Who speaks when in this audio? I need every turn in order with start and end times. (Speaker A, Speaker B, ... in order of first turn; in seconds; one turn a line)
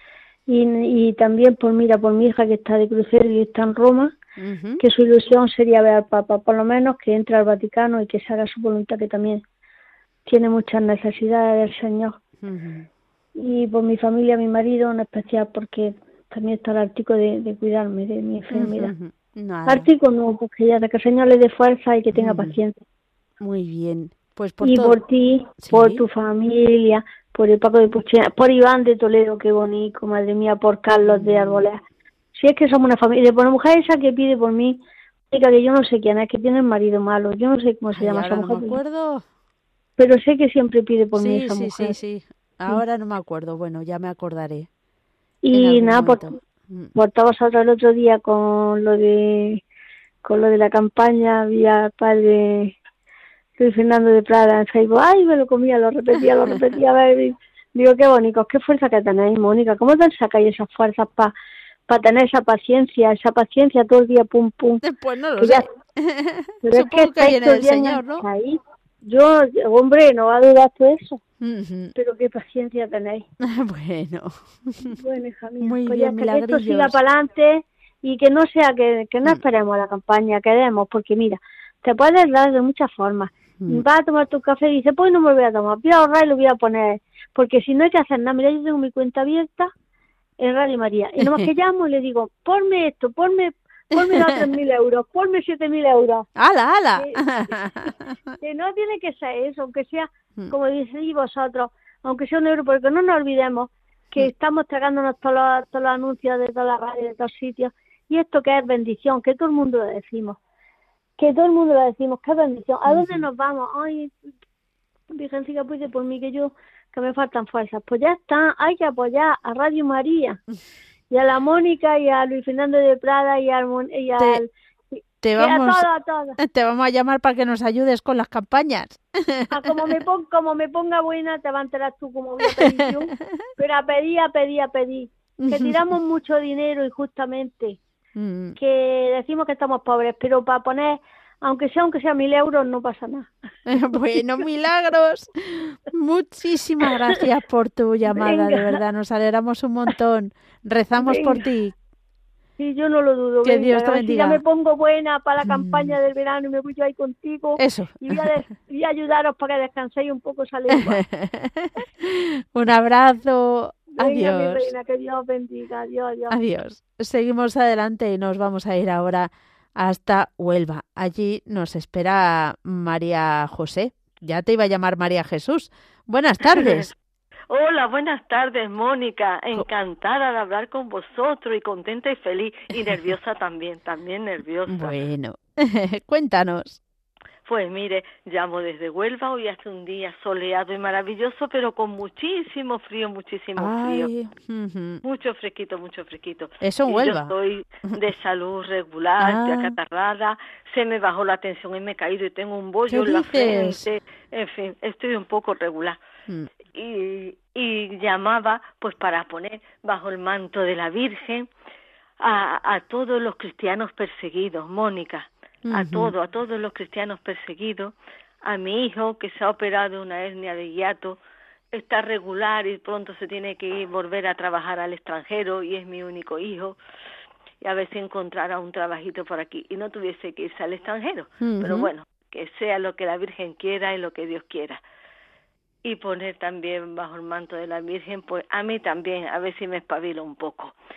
Speaker A: 0.5-4.1
Speaker B: 4.4-4.8
Speaker A: 4.8-9.4
Speaker A: 10.2-12.2
Speaker B: 12.4-12.9
Speaker A: 13.4-18.9
Speaker B: 18.5-19.9
Speaker A: 19.6-22.8
Speaker B: 22.1-22.6
Speaker B: 23.4-25.0
Speaker A: 24.6-31.8
Speaker B: 25.6-26.1
Speaker B: 31.1-31.6
Speaker A: 32.3-34.8
Speaker A: 35.3-38.8
Speaker B: 37.9-39.2
Speaker A: 40.0-42.0
Speaker B: 41.1-44.7
Speaker A: 45.4-46.4
Speaker B: 45.5-46.9
Speaker A: 46.9-49.6
Speaker A: 50.2-52.8
Speaker A: 53.6-61.3
Speaker A: 61.9-64.8
Speaker B: 64.8-68.2
Speaker A: 65.4-65.7
Speaker A: 66.6-71.2
Speaker B: 71.4-71.9
Speaker A: 72.0-73.2
Speaker B: 73.4-74.9
Speaker A: 74.8-89.7
Speaker B: 75.6-77.0
Speaker A: 90.4-96.2
Speaker B: 91.2-91.5
Speaker B: 93.9-94.5
Speaker B: 96.4-98.1
Speaker A: 98.4-110.4
Speaker A: 111.2-114.1
Speaker B: 112.9-113.2
Speaker A: 115.1-120.4
Speaker A: 121.1-126.4
Speaker B: 125.2-125.9
Speaker B: 126.4-129.9
Speaker A: 129.5-137.8
Speaker B: 132.5-133.4
Speaker B: 135.4-135.8
Speaker B: 138.2-138.6
Speaker A: 138.6-143.3
Speaker B: 143.7-151.7
Speaker A: 148.1-148.8
Speaker A: 151.0-151.4
Speaker A: 152.6-161.0
Speaker B: 153.4-154.4
Speaker B: 155.4-155.9
Speaker B: 157.6-158.4
Speaker B: 160.8-164.7
Speaker A: 163.9-166.3
Speaker B: 166.3-176.9
Speaker C: 176.4-176.9
Speaker C: 177.5-185.0
Speaker B: 184.7-186.8
Speaker C: 187.4-194.1
Speaker B: 193.6-195.0
Speaker C: 195.0-206.0
Speaker B: 196.6-197.3
Speaker B: 199.2-199.7
Speaker B: 202.9-203.8
Speaker C: 206.7-211.5
Speaker C: 212.2-221.2
Speaker B: 215.7-216.1
Speaker C: 221.7-226.8
Speaker C: 227.6-234.8
Speaker B: 231.4-231.9
Speaker C: 235.8-240.7